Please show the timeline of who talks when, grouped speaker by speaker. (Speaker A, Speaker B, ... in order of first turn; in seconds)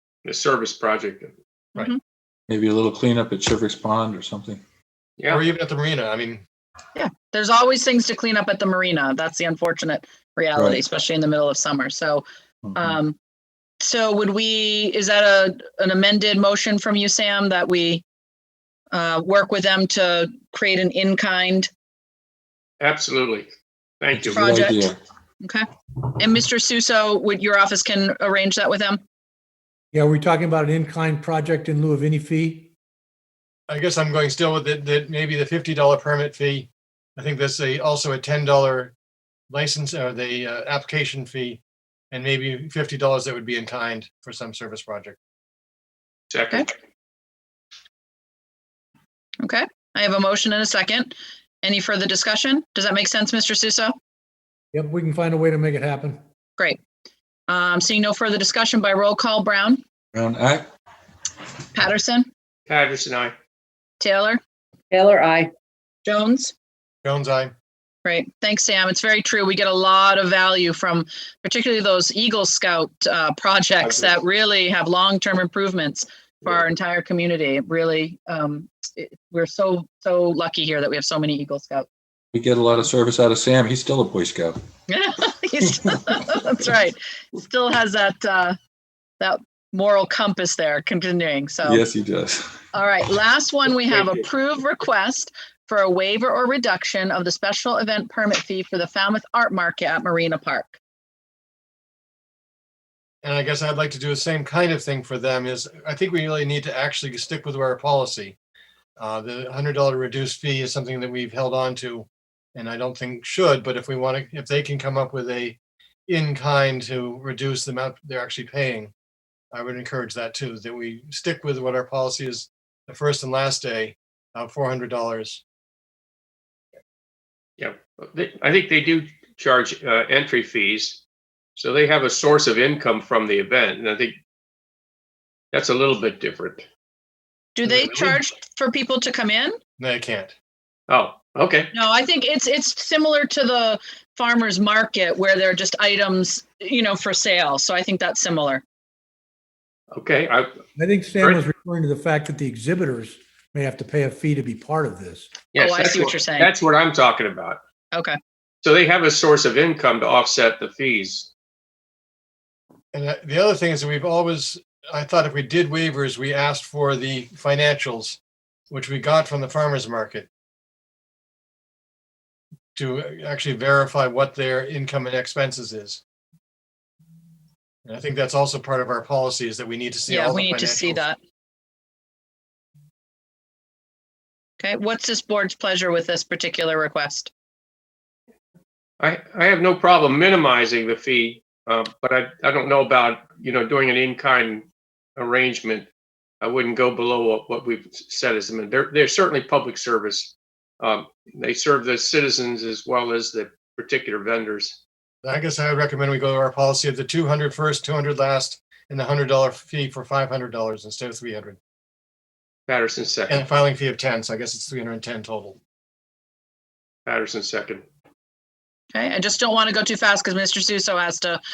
Speaker A: 0.2-1.3, 5.2-5.4, 22.8-23.5, 24.0-24.4, 46.3-46.7, 62.7-63.3, 73.8-74.1, 127.6-131.0, 131.6-134.2, 135.5-136.7, 140.9-141.7, 149.9-150.5, 155.5-157.6, 158.6-161.3, 189.0-194.7, 195.2-195.9, 196.4-204.8, 212.7-213.4, 217.1-217.8
Speaker B: 2.5-4.6, 10.6-10.8, 12.6-13.0, 24.1-25.0, 60.1-60.7, 82.3-84.6, 91.7-92.6
Speaker C: 5.3-6.5, 33.7-38.9, 39.5-41.6, 42.1-45.2, 67.0-67.5, 103.2-108.4, 109.0-118.9, 119.5-125.4, 139.8-140.3, 162.9-168.2, 168.7-170.3, 172.8-176.0, 177.9-181.1, 205.2-211.6, 213.3-215.6
Speaker D: 7.0-12.2, 12.8-13.2, 13.8-18.0, 18.9-21.7, 24.3-29.0, 49.4-54.0, 57.5-59.8, 61.7-62.3, 64.0-64.4, 66.1-66.5, 68.0-81.9, 84.9-88.6, 89.2-91.8, 92.7-100.8, 137.6-139.6, 141.7-148.6, 155.6-156.5, 157.9-158.2, 180.1-181.2, 184.6-187.3, 218.9-221.4
Speaker E: 29.9-32.7, 54.7-56.2, 150.8-155.3